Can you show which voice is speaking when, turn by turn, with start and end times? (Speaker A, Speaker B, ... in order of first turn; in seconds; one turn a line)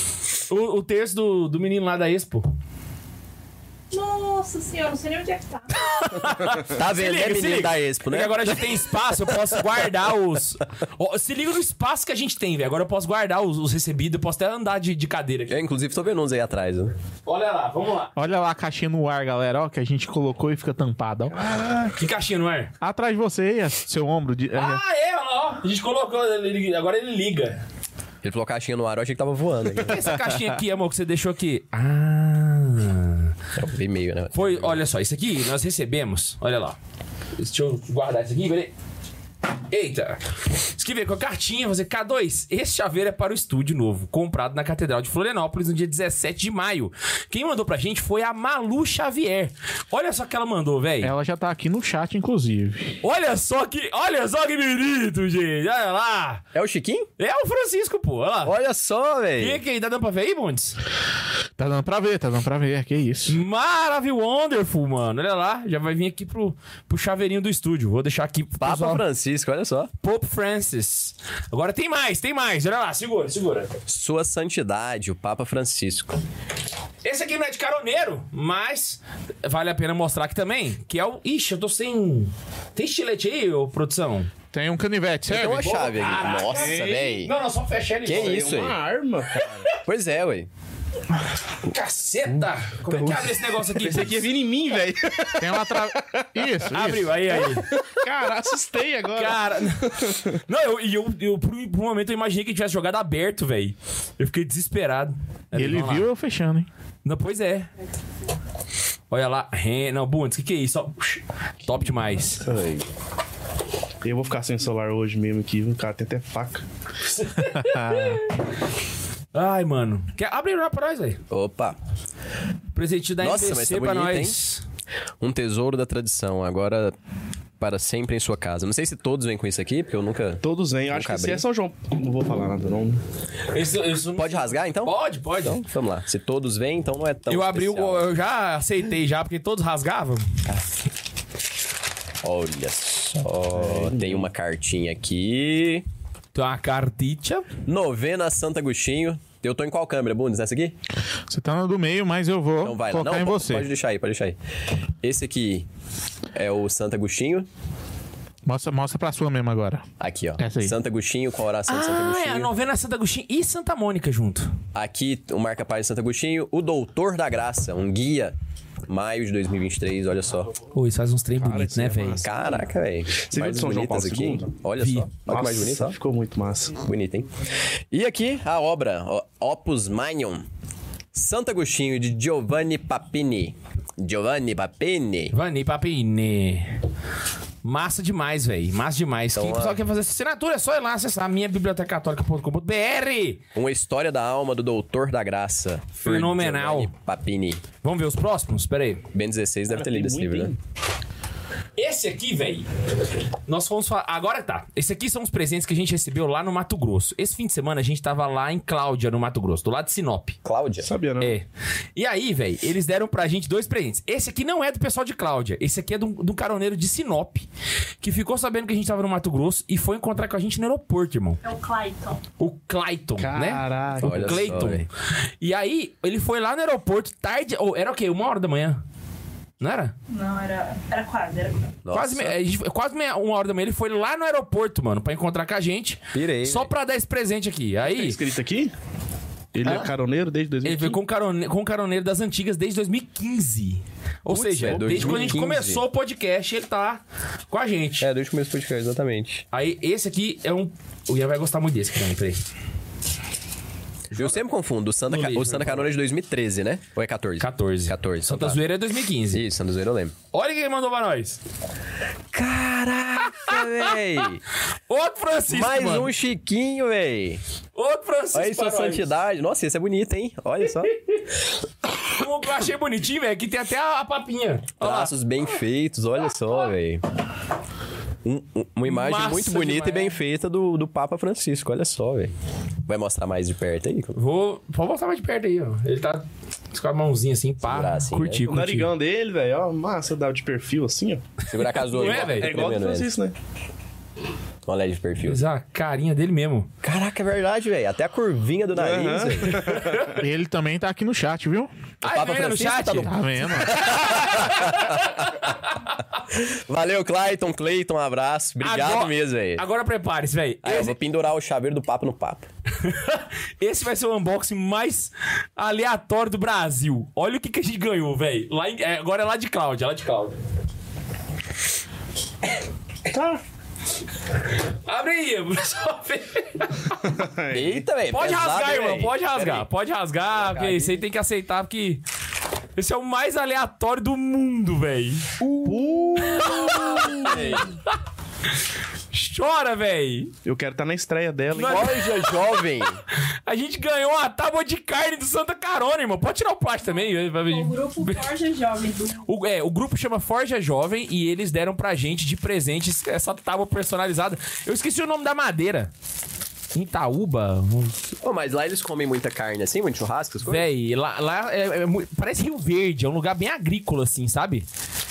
Speaker A: 0.5-2.5
Speaker B: 3.9-5.7
Speaker A: 5.9-15.6
Speaker C: 6.6-9.6
Speaker C: 15.5-16.9
Speaker A: 17.2-18.1
Speaker D: 18.1-21.4
Speaker E: 21.3-21.9
Speaker A: 21.9-22.7
Speaker D: 22.8-24.8
Speaker A: 24.5-27.6
Speaker C: 28.2-30.2
Speaker A: 29.8-33.3
Speaker C: 33.6-34.8
Speaker A: 34.3-36.8
Speaker A: 37.4-38.7
Speaker A: 39.7-40.2
Speaker A: 40.7-51.1
Speaker D: 51.0-53.0
Speaker A: 53.0-56.4
Speaker C: 56.5-57.1
Speaker A: 57.2-58.5
Speaker C: 58.4-59.6
Speaker A: 59.4-60.8
Speaker D: 61.6-63.4
Speaker A: 63.3-69.0
Speaker C: 68.6-69.9
Speaker A: 70.0-73.8
Speaker C: 73.9-76.2
Speaker A: 77.0-84.3
Speaker D: 84.5-85.8
Speaker C: 85.3-87.3
Speaker A: 85.5-88.4
Speaker E: 86.5-87.2
Speaker C: 88.0-88.8
Speaker E: 88.1-89.7
Speaker C: 89.8-90.5
Speaker A: 91.6-94.2
Speaker E: 93.8-96.4
Speaker D: 95.4-97.2
Speaker A: 96.7-97.7
Speaker E: 97.8-100.3
Speaker A: 99.1-99.9
Speaker A: 100.5-106.1
Speaker D: 105.5-106.7
Speaker A: 107.0-107.7
Speaker A: 109.1-112.4
Speaker C: 112.4-112.9
Speaker E: 114.0-116.6
Speaker A: 117.0-118.4
Speaker D: 117.5-118.2
Speaker A: 119.3-121.2
Speaker C: 121.3-121.8
Speaker A: 122.8-124.6
Speaker C: 123.2-124.4
Speaker C: 125.2-126.9
Speaker C: 127.6-131.4
Speaker E: 130.4-133.0
Speaker A: 133.5-135.6
Speaker C: 134.2-138.1
Speaker A: 137.3-140.4
Speaker C: 142.2-145.8
Speaker E: 143.5-144.3
Speaker A: 146.3-147.5
Speaker C: 147.7-150.8
Speaker D: 151.3-153.7
Speaker C: 152.6-154.4
Speaker C: 155.0-155.6
Speaker C: 156.3-157.4
Speaker D: 158.4-159.8
Speaker C: 160.0-162.5
Speaker D: 160.4-160.8
Speaker A: 161.7-164.5
Speaker C: 164.8-168.3
Speaker C: 168.9-170.6
Speaker A: 170.7-172.2
Speaker E: 171.4-172.5
Speaker C: 172.2-176.0
Speaker E: 173.3-174.5
Speaker A: 174.8-175.1
Speaker E: 175.3-176.8
Speaker C: 176.8-177.3
Speaker C: 177.9-180.4
Speaker C: 181.1-185.3
Speaker A: 185.3-186.8
Speaker A: 187.6-193.4
Speaker C: 189.4-189.8
Speaker C: 193.6-197.6
Speaker A: 196.0-196.9
Speaker A: 197.8-199.1
Speaker C: 199.1-200.6
Speaker E: 199.7-200.6
Speaker A: 201.8-202.7
Speaker A: 203.5-210.4
Speaker C: 210.4-210.9
Speaker E: 210.8-211.3
Speaker A: 211.2-211.4
Speaker A: 211.9-217.5
Speaker A: 218.0-221.4
Speaker B: 221.4-222.2
Speaker A: 222.4-224.9
Speaker E: 223.2-224.6
Speaker C: 224.0-224.9
Speaker A: 225.4-228.8
Speaker A: 229.6-229.9
Speaker B: 230.1-231.8
Speaker C: 231.8-232.4
Speaker A: 231.9-238.2
Speaker C: 236.1-236.7
Speaker E: 237.8-238.7
Speaker E: 239.5-241.0
Speaker A: 239.6-239.9
Speaker A: 240.6-248.1
Speaker C: 244.3-245.8
Speaker E: 244.8-245.4
Speaker C: 248.0-249.4
Speaker A: 249.5-252.4
Speaker C: 254.1-258.6
Speaker A: 255.1-255.9
Speaker A: 257.4-259.4
Speaker C: 259.3-260.1
Speaker A: 260.3-261.4
Speaker C: 262.3-264.4
Speaker A: 263.4-263.9
Speaker A: 264.9-266.1
Speaker C: 265.5-267.4
Speaker A: 267.8-269.1
Speaker C: 268.3-270.9
Speaker A: 272.1-275.1
Speaker C: 274.8-277.0
Speaker C: 278.2-282.3
Speaker A: 278.9-280.2
Speaker C: 282.9-284.2
Speaker A: 284.1-288.9
Speaker C: 287.6-288.4
Speaker E: 288.5-291.3
Speaker C: 291.5-293.1
Speaker A: 291.9-292.6
Speaker E: 292.0-293.3
Speaker C: 294.7-295.4
Speaker A: 295.2-296.7
Speaker C: 296.8-299.8
Speaker E: 298.8-300.1
Speaker D: 300.1-301.7
Speaker A: 302.0-303.1
Speaker C: 302.1-305.6
Speaker D: 303.0-303.8
Speaker A: 303.7-305.5
Speaker C: 306.3-309.6
Speaker A: 308.6-310.9
Speaker C: 310.6-312.4
Speaker A: 312.8-320.4
Speaker E: 323.1-323.4
Speaker A: 324.9-327.0
Speaker E: 327.0-327.9
Speaker C: 327.5-329.6
Speaker A: 328.1-332.0
Speaker C: 330.3-331.0
Speaker A: 332.8-335.3
Speaker C: 335.4-337.7
Speaker E: 335.6-337.5
Speaker A: 336.4-337.9
Speaker A: 339.1-340.3
Speaker E: 340.4-341.9
Speaker A: 341.5-342.4
Speaker C: 341.6-343.0
Speaker A: 343.4-348.2
Speaker B: 346.8-349.3
Speaker A: 349.2-355.9
Speaker A: 356.7-358.0
Speaker C: 358.2-360.7
Speaker A: 360.4-364.6